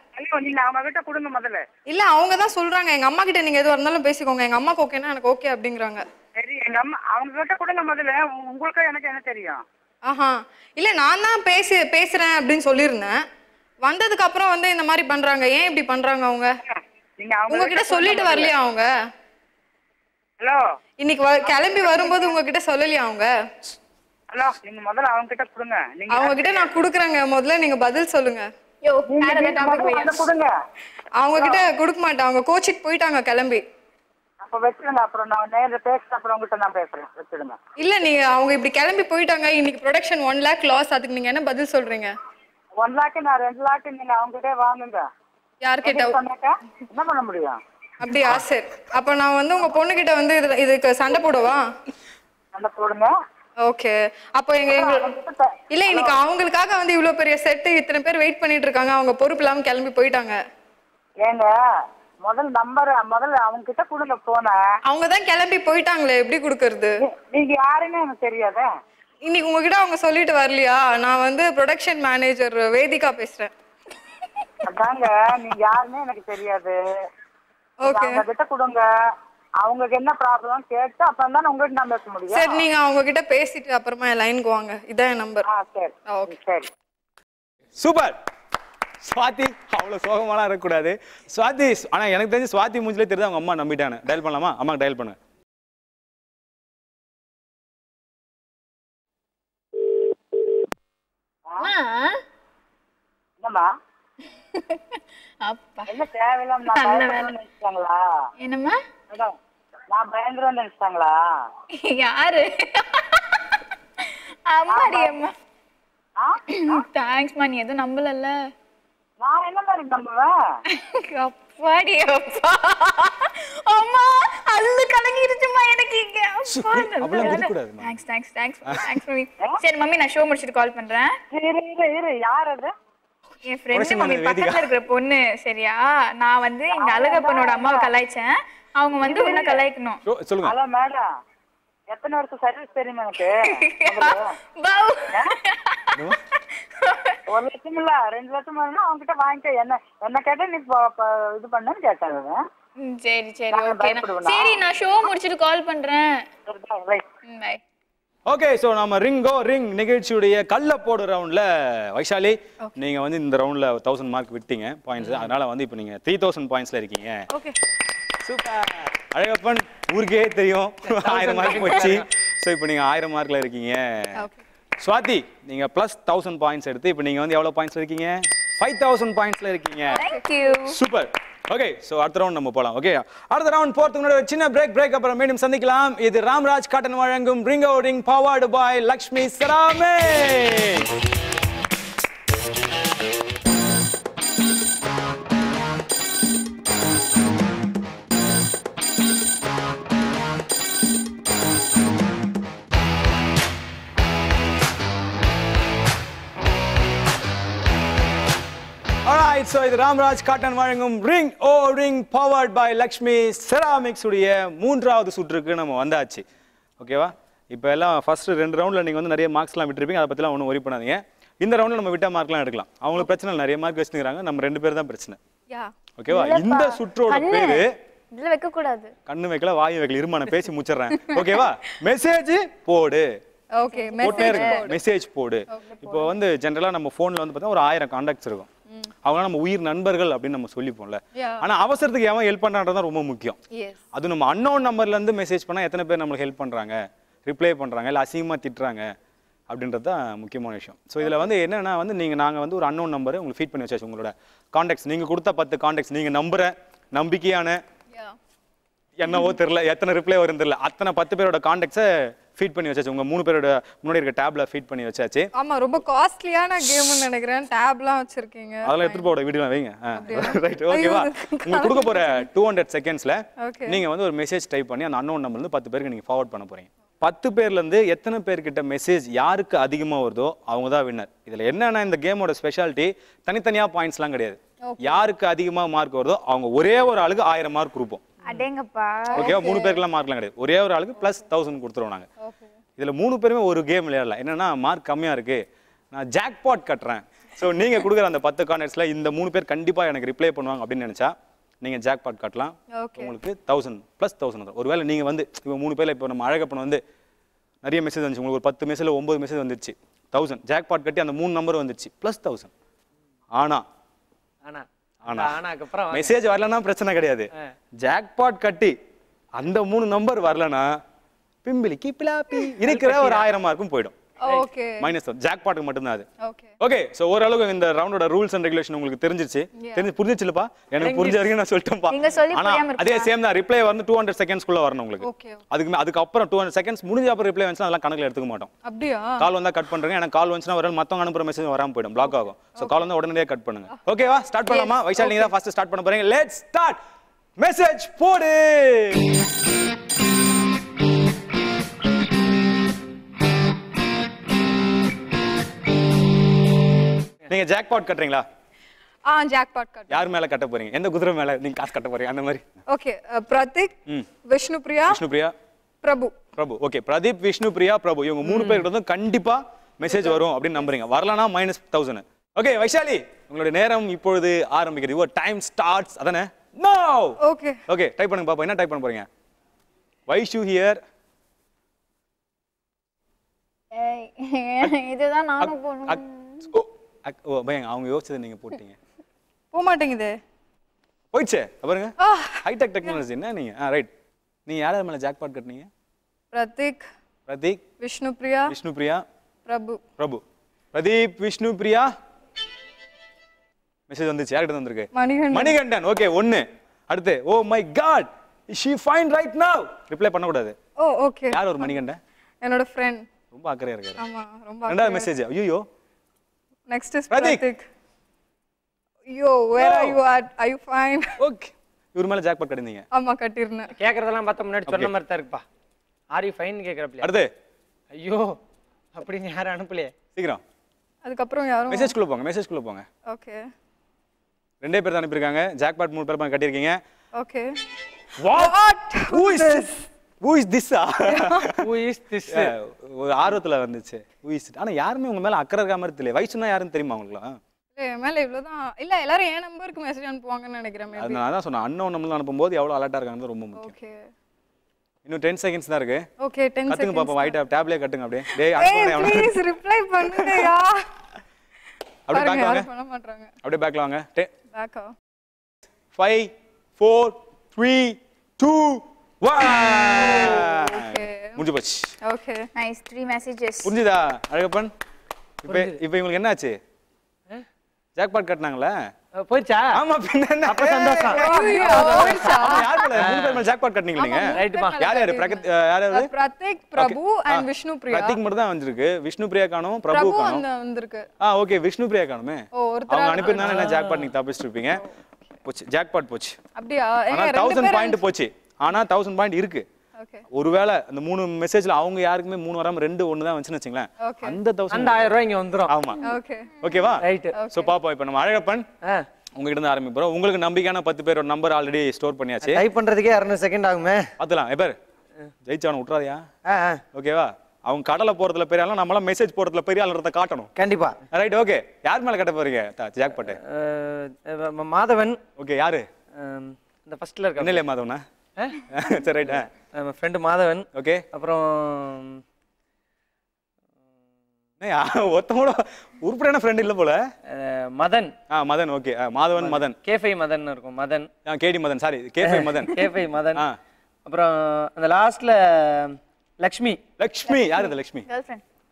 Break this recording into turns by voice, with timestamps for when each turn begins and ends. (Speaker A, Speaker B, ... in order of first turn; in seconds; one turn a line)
Speaker A: 0.1-1.6
Speaker B: 1.9-6.0
Speaker A: 6.4-9.6
Speaker B: 10.1-13.2
Speaker B: 13.8-16.5
Speaker A: 16.7-18.5
Speaker B: 17.5-18.9
Speaker B: 21.0-23.3
Speaker A: 21.4-22.2
Speaker A: 24.3-26.8
Speaker B: 26.1-28.5
Speaker C: 28.8-30.2
Speaker A: 29.1-30.5
Speaker B: 31.2-33.6
Speaker A: 31.3-31.6
Speaker A: 34.4-37.6
Speaker B: 37.8-42.1
Speaker A: 42.8-45.0
Speaker B: 45.6-46.2
Speaker A: 45.8-47.6
Speaker B: 48.0-51.6
Speaker A: 52.5-53.1
Speaker B: 53.6-55.1
Speaker A: 54.6-56.2
Speaker B: 55.7-60.4
Speaker A: 61.2-61.5
Speaker A: 62.2-64.6
Speaker B: 64.9-67.0
Speaker A: 67.0-68.7
Speaker B: 69.2-73.5
Speaker A: 74.6-76.8
Speaker B: 77.8-78.2
Speaker A: 77.8-78.8
Speaker A: 79.6-82.6
Speaker B: 82.3-85.5
Speaker A: 85.4-86.7
Speaker B: 86.1-86.3
Speaker D: 87.8-88.2
Speaker D: 89.0-95.2
Speaker C: 101.6-102.2
Speaker A: 103.4-103.7
Speaker C: 104.6-105.9
Speaker A: 105.9-108.0
Speaker C: 106.7-107.3
Speaker C: 108.4-108.7
Speaker A: 109.9-111.1
Speaker C: 111.8-113.5
Speaker C: 114.5-115.3
Speaker A: 114.7-115.1
Speaker A: 116.2-116.8
Speaker C: 116.5-118.3
Speaker A: 119.2-120.3
Speaker C: 120.7-131.1
Speaker D: 126.5-127.9
Speaker A: 131.3-132.7
Speaker C: 133.5-140.0
Speaker D: 133.7-134.7
Speaker A: 136.8-137.9
Speaker A: 139.0-139.6
Speaker D: 140.1-140.5
Speaker A: 140.4-141.0
Speaker A: 141.9-144.2
Speaker C: 143.3-145.9
Speaker C: 146.7-147.2
Speaker A: 147.3-152.4
Speaker C: 152.8-156.2
Speaker A: 153.5-154.6
Speaker A: 156.5-157.0
Speaker C: 157.3-157.6
Speaker D: 158.3-167.2
Speaker E: 165.0-165.3
Speaker D: 168.2-174.2
Speaker E: 170.9-172.1
Speaker B: 174.2-174.4
Speaker D: 174.8-180.0
Speaker C: 179.9-180.7
Speaker D: 180.6-190.9
Speaker D: 209.0-216.2
Speaker D: 216.8-225.2
Speaker D: 226.0-227.7
Speaker C: 226.1-228.9
Speaker D: 229.1-233.1
Speaker C: 231.0-231.4
Speaker B: 233.6-234.7
Speaker C: 233.7-234.7
Speaker D: 234.0-238.5
Speaker C: 235.7-236.1
Speaker D: 239.0-243.4
Speaker B: 241.2-241.4
Speaker B: 243.5-243.8
Speaker D: 243.9-248.9
Speaker D: 249.5-257.6
Speaker D: 259.0-265.3
Speaker B: 265.4-269.1
Speaker D: 268.6-288.0
Speaker B: 269.9-272.2
Speaker B: 273.4-273.8
Speaker B: 284.6-285.0
Speaker C: 288.2-289.6
Speaker B: 289.1-289.7
Speaker D: 289.1-292.1
Speaker B: 292.2-292.5
Speaker D: 292.8-306.8
Speaker B: 302.8-303.1
Speaker D: 307.6-312.5
Speaker D: 313.3-313.6
Speaker E: 314.4-316.1
Speaker D: 315.1-315.4
Speaker D: 315.9-318.8
Speaker D: 319.4-320.7
Speaker D: 321.4-323.9
Speaker E: 322.6-323.2
Speaker B: 324.2-324.9
Speaker D: 324.8-326.1
Speaker B: 326.2-326.5
Speaker D: 326.6-338.5
Speaker B: 329.6-329.9
Speaker E: 330.8-331.2
Speaker C: 331.9-333.1
Speaker B: 335.0-335.4
Speaker B: 338.6-339.2
Speaker D: 339.2-346.8
Speaker B: 344.5-345.3
Speaker D: 347.4-349.0
Speaker D: 357.3-358.2
Speaker B: 359.1-360.0
Speaker D: 359.9-362.4
Speaker B: 362.7-363.7
Speaker B: 364.3-365.0
Speaker D: 364.9-365.3
Speaker B: 365.8-366.1
Speaker D: 366.4-379.1
Speaker B: 369.9-370.2
Speaker B: 377.2-377.6
Speaker D: 380.1-380.8
Speaker C: 383.7-386.5
Speaker D: 385.4-388.8
Speaker B: 389.5-390.2
Speaker D: 391.1-393.9
Speaker B: 392.0-392.4
Speaker D: 394.5-395.7
Speaker B: 396.3-396.9
Speaker D: 397.3-397.6
Speaker B: 397.8-398.5
Speaker D: 398.5-399.0
Speaker B: 399.5-399.8
Speaker D: 400.0-401.9
Speaker D: 403.9-410.6
Speaker B: 404.9-405.6
Speaker B: 410.8-411.7
Speaker D: 411.3-412.0
Speaker B: 412.4-413.0
Speaker D: 413.3-414.0
Speaker B: 414.0-415.1
Speaker D: 414.7-415.6
Speaker B: 416.7-417.7
Speaker D: 417.1-417.4
Speaker B: 419.1-421.2
Speaker D: 419.6-420.0
Speaker D: 421.2-422.9
Speaker B: 422.9-423.7
Speaker E: 423.8-425.4
Speaker E: 426.1-427.1
Speaker D: 427.0-427.3
Speaker E: 427.9-428.4
Speaker E: 428.9-429.9
Speaker D: 430.1-430.4
Speaker B: 431.0-431.9
Speaker D: 431.7-432.9
Speaker B: 433.1-433.4
Speaker D: 434.6-436.8
Speaker B: 437.2-437.5
Speaker D: 438.2-439.7
Speaker B: 438.3-439.7
Speaker D: 440.2-441.5
Speaker B: 441.1-441.5
Speaker E: 441.6-442.5
Speaker D: 442.3-447.4
Speaker B: 447.8-451.2
Speaker D: 450.9-453.7
Speaker B: 453.6-454.1
Speaker D: 455.0-456.1
Speaker B: 456.2-457.4
Speaker D: 456.7-459.3
Speaker B: 458.3-460.9
Speaker D: 460.0-460.5
Speaker D: 462.1-462.7
Speaker B: 462.1-463.3
Speaker D: 463.4-464.3
Speaker B: 464.5-464.9
Speaker D: 465.9-471.9
Speaker B: 470.1-471.4
Speaker B: 472.0-472.5
Speaker C: 472.6-473.7
Speaker D: 473.6-474.7
Speaker D: 475.4-476.6
Speaker E: 475.5-475.8
Speaker D: 478.0-478.9
Speaker E: 479.2-479.8
Speaker D: 479.7-486.1
Speaker E: 480.4-483.4
Speaker B: 481.1-482.7
Speaker B: 483.9-488.2
Speaker E: 484.3-484.9
Speaker D: 486.8-490.4
Speaker B: 489.9-491.1
Speaker D: 491.2-494.8
Speaker B: 492.6-493.8
Speaker E: 493.2-494.1
Speaker D: 495.4-496.4
Speaker B: 496.6-498.0
Speaker D: 497.1-499.6
Speaker B: 500.0-500.2
Speaker D: 500.3-506.0
Speaker B: 504.0-504.4
Speaker E: 504.7-505.7
Speaker C: 505.9-506.9
Speaker B: 506.0-506.5
Speaker D: 506.6-508.7
Speaker E: 507.0-507.4
Speaker B: 507.4-507.7
Speaker D: 509.4-512.6
Speaker E: 512.4-514.0
Speaker D: 514.2-514.8
Speaker D: 515.5-516.2
Speaker E: 516.5-516.8
Speaker D: 516.9-520.5
Speaker E: 520.6-521.0
Speaker D: 521.1-523.4
Speaker E: 523.2-525.2
Speaker D: 525.4-525.9
Speaker E: 526.2-527.6
Speaker D: 527.4-528.0
Speaker D: 528.7-529.5
Speaker E: 529.3-532.2
Speaker D: 530.7-531.0
Speaker D: 534.6-537.0
Speaker E: 537.3-538.1
Speaker D: 538.3-539.8
Speaker E: 539.4-541.1
Speaker D: 541.2-542.8
Speaker E: 542.2-543.4
Speaker E: 544.1-546.8
Speaker D: 547.0-548.0
Speaker C: 548.1-548.4